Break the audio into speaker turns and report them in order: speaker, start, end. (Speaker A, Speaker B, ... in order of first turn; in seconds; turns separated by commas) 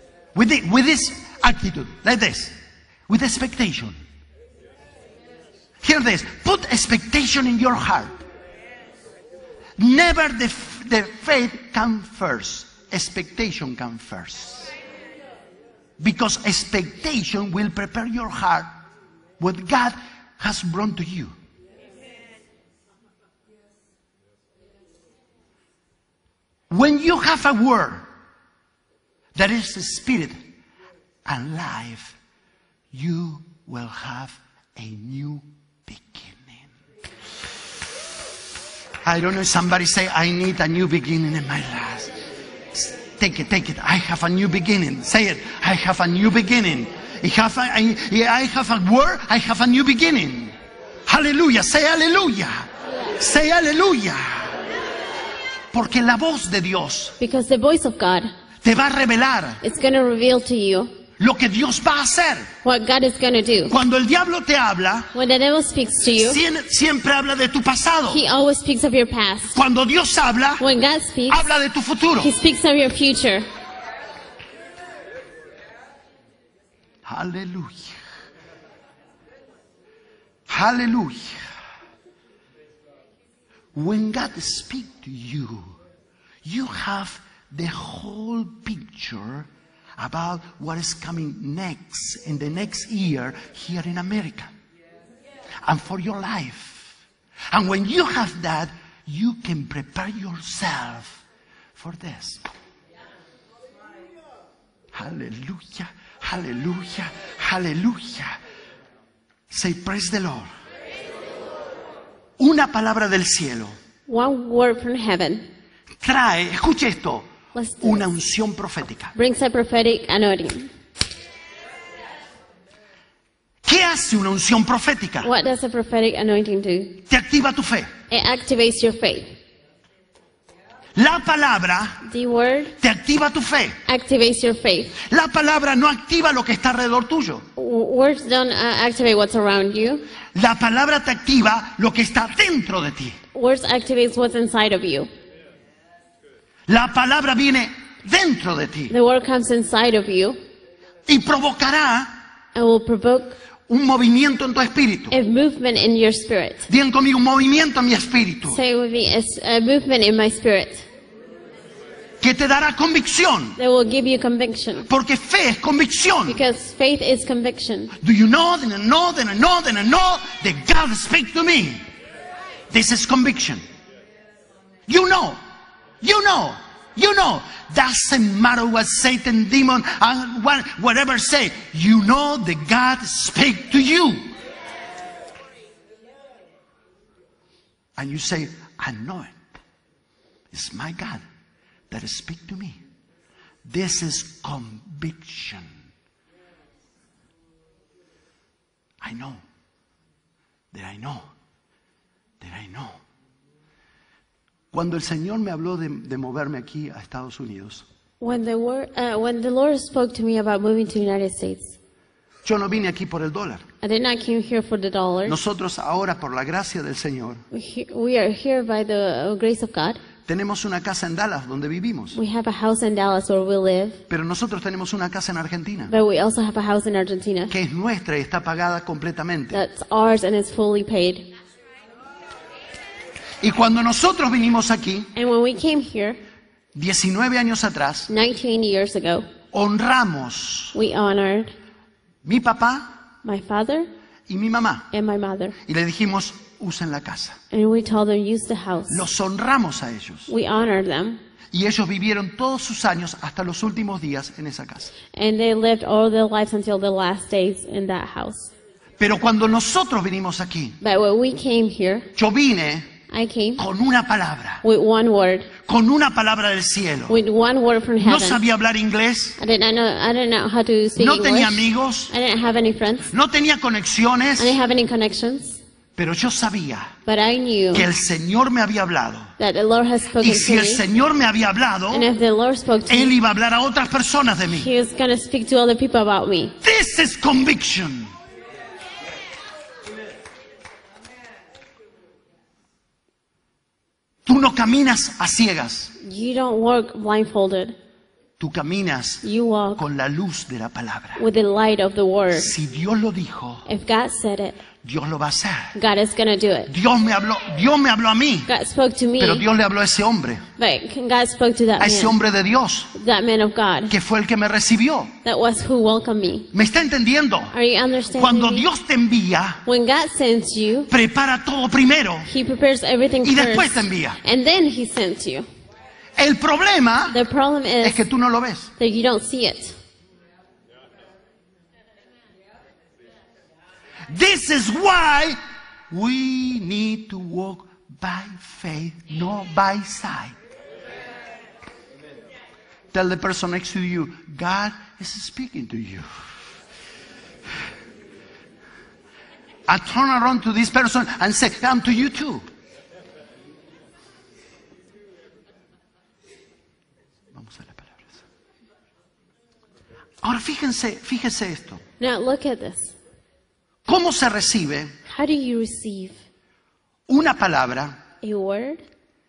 Speaker A: 0.3-2.6, Speaker A: 3.1-4.0, Speaker A: 5.8-8.2, Speaker A: 9.8-14.7, Speaker A: 16.0-18.7, Speaker A: 19.4-21.4, Speaker A: 26.7-28.1, Speaker A: 29.4-30.4, Speaker A: 31.2-32.2, Speaker A: 32.9-36.7, Speaker A: 39.0-42.1, Speaker A: 42.7-50.5, Speaker A: 51.1-54.5, Speaker A: 55.7-57.2, Speaker B: 57.2-58.3, Speaker A: 58.6-59.6, Speaker B: 59.6-60.9, Speaker A: 61.2-62.5, Speaker B: 62.6-63.8, Speaker A: 63.7-65.1, Speaker B: 65.1-66.4, Speaker A: 66.2-68.2, Speaker B: 68.1-69.6, Speaker A: 69.5-70.6, Speaker B: 70.6-71.5, Speaker A: 71.3-72.3, Speaker B: 72.2-73.5, Speaker A: 77.0-78.0, Speaker A: 80.5-81.4, Speaker A: 83.7-85.8, Speaker A: 86.4-94.5, Speaker A: 95.6-97.0, Speaker A: 97.5-101.2, Speaker A: 101.8-102.5, Speaker A: 104.9-108.4, Speaker A: 109.5-110.5, Speaker A: 112.4-113.8, Speaker B: 114.1-115.5, Speaker A: 116.0-117.3, Speaker B: 117.5-118.0, Speaker A: 117.8-119.1, Speaker B: 119.2-120.7, Speaker A: 123.6-125.3, Speaker B: 125.2-127.0, Speaker A: 127.1-127.9, Speaker B: 128.1-129.3, Speaker A: 130.9-132.0, Speaker B: 132.0-132.8, Speaker A: 132.8-133.8, Speaker B: 133.9-135.0, Speaker A: 135.0-137.5, Speaker B: 137.6-140.1, Speaker A: 140.3-143.2, Speaker B: 143.3-145.1, Speaker A: 146.7-148.9, Speaker B: 148.9-150.4, Speaker A: 151.1-152.2, Speaker B: 152.6-153.4, Speaker A: 153.7-155.2, Speaker B: 155.1-156.7, Speaker A: 156.7-158.6, Speaker B: 158.5-160.9, Speaker A: 162.2-163.6, Speaker B: 163.6-164.9, Speaker A: 164.9-166.4, Speaker B: 166.3-167.9, Speaker A: 168.0-171.8, Speaker A: 172.7-173.6, Speaker A: 174.9-175.4, Speaker A: 176.0-184.3, Speaker A: 188.0-189.4, Speaker A: 190.5-191.2, Speaker A: 191.9-192.8, Speaker A: 193.7-195.8, Speaker A: 199.0-199.4, Speaker A: 200.7-201.3, Speaker A: 202.4-203.0, Speaker A: 204.7-207.8, Speaker B: 208.2-211.8, Speaker A: 212.4-213.7, Speaker B: 213.8-215.4, Speaker A: 215.2-217.4, Speaker B: 217.5-220.0, Speaker A: 220.3-222.2, Speaker B: 222.1-224.0, Speaker A: 224.1-225.9, Speaker B: 225.9-227.5, Speaker A: 227.5-229.6, Speaker B: 229.5-231.3, Speaker A: 233.4-235.1, Speaker B: 235.2-236.2, Speaker A: 236.7-238.1, Speaker B: 238.1-239.3, Speaker A: 239.5-240.8, Speaker B: 240.7-241.5, Speaker A: 242.2-243.0, Speaker B: 243.2-243.9, Speaker A: 244.3-244.9, Speaker B: 244.9-245.6, Speaker A: 245.7-247.4, Speaker B: 247.5-249.1, Speaker A: 248.9-250.3, Speaker B: 250.3-251.2, Speaker A: 251.5-254.9, Speaker B: 255.1-258.5, Speaker A: 259.0-260.8, Speaker B: 260.8-262.1, Speaker A: 262.1-262.9, Speaker B: 263.1-263.6, Speaker A: 263.6-264.6, Speaker B: 264.6-265.5, Speaker A: 265.6-267.2, Speaker B: 267.1-268.4, Speaker A: 268.0-269.4, Speaker B: 269.4-273.1, Speaker A: 271.0-272.1, Speaker A: 273.1-274.6, Speaker B: 274.4-275.6, Speaker A: 276.0-276.9, Speaker B: 277.1-277.9, Speaker A: 277.7-279.3, Speaker B: 279.4-280.8, Speaker A: 280.2-282.1, Speaker B: 281.9-283.1, Speaker A: 282.9-284.7, Speaker B: 284.5-286.6, Speaker A: 286.6-288.1, Speaker A: 294.3-295.9, Speaker B: 296.0-297.8, Speaker A: 298.4-299.2, Speaker B: 299.2-299.8, Speaker A: 299.8-301.2, Speaker B: 301.2-302.5, Speaker A: 302.3-303.6, Speaker B: 303.7-304.6, Speaker A: 304.8-305.7, Speaker B: 305.8-306.7, Speaker A: 306.7-308.5, Speaker B: 308.5-309.5, Speaker A: 309.2-310.4, Speaker B: 310.6-312.2, Speaker A: 311.8-312.9, Speaker B: 312.9-313.9, Speaker A: 313.9-315.1, Speaker B: 315.2-316.5, Speaker A: 316.5-317.5, Speaker B: 317.5-318.7, Speaker A: 318.1-319.6, Speaker B: 319.7-320.9, Speaker A: 320.9-322.3, Speaker B: 322.3-325.5, Speaker A: 323.2-324.2, Speaker A: 326.2-327.2, Speaker B: 327.1-328.0, Speaker A: 327.8-328.7, Speaker B: 328.8-329.8, Speaker A: 334.1-335.4, Speaker A: 335.9-340.4, Speaker A: 342.9-346.1, Speaker A: 349.7-352.4, Speaker A: 357.3-358.2, Speaker A: 360.2-361.8, Speaker B: 362.0-362.9, Speaker A: 363.9-364.9, Speaker B: 365.1-366.2, Speaker A: 367.1-368.0, Speaker B: 368.2-368.8